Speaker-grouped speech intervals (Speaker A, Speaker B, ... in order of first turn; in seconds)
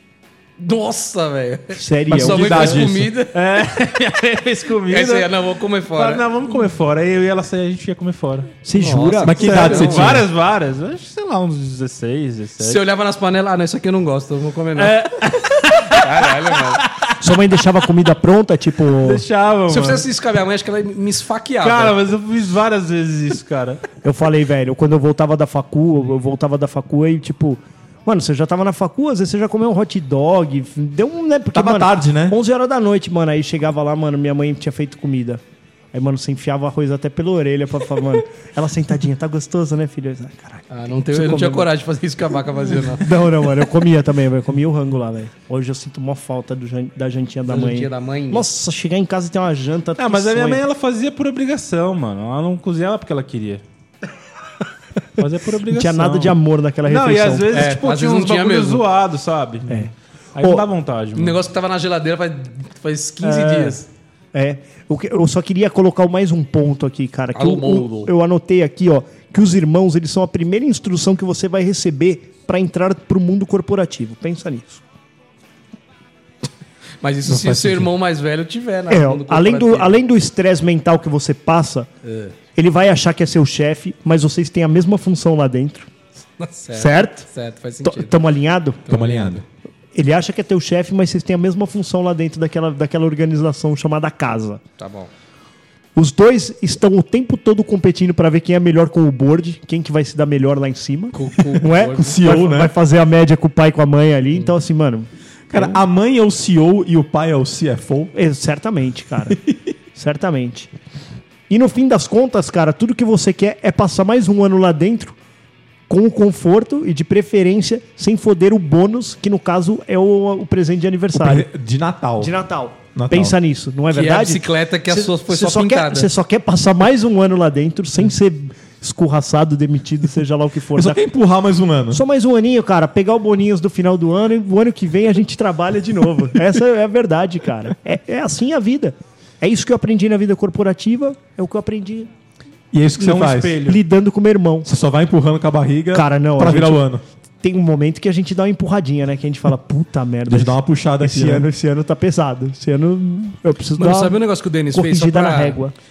Speaker A: 0.6-3.4, 4.9-6.3, 8.8-10.3, 12.6-15.1, 15.7-16.8, 19.7-22.0, 40.7-43.1, 47.5-48.5, 57.5-58.8, 61.1-63.9, 67.3-68.1, 77.0-80.0, 82.0-82.3, 86.4-88.2, 88.9-89.4, 94.8-95.1, 101.1-102.2, 123.9-126.1, 153.8-155.6
Speaker B: 1.7-2.7, 8.6-10.1, 17.2-19.2, 24.0-35.4, 35.9-41.7, 43.0-50.6, 55.7-57.7, 63.2-63.8, 64.3-74.8, 78.9-81.9, 82.5-85.9, 86.8-87.3, 87.8-88.8, 90.0-94.6, 96.0-105.8, 108.1-110.7, 111.5-115.2, 115.9-121.5, 122.2-131.0, 131.9-142.1, 143.6-144.7, 145.9-146.8, 147.4-155.7
Speaker C: 2.1-3.1, 9.2-10.3, 31.5-32.4, 77.2-77.9, 88.9-89.4, 101.9-102.8, 105.5-108.1, 121.1-122.4, 123.0-123.4, 130.8-132.0, 142.7-143.7, 144.6-147.0, 150.3-151.5
Speaker D: 3.3-5.3, 5.9-8.5, 9.4-12.8, 14.8-17.1, 19.0-20.1, 21.6-23.8, 50.0-53.6, 55.2-61.4, 143.0-143.8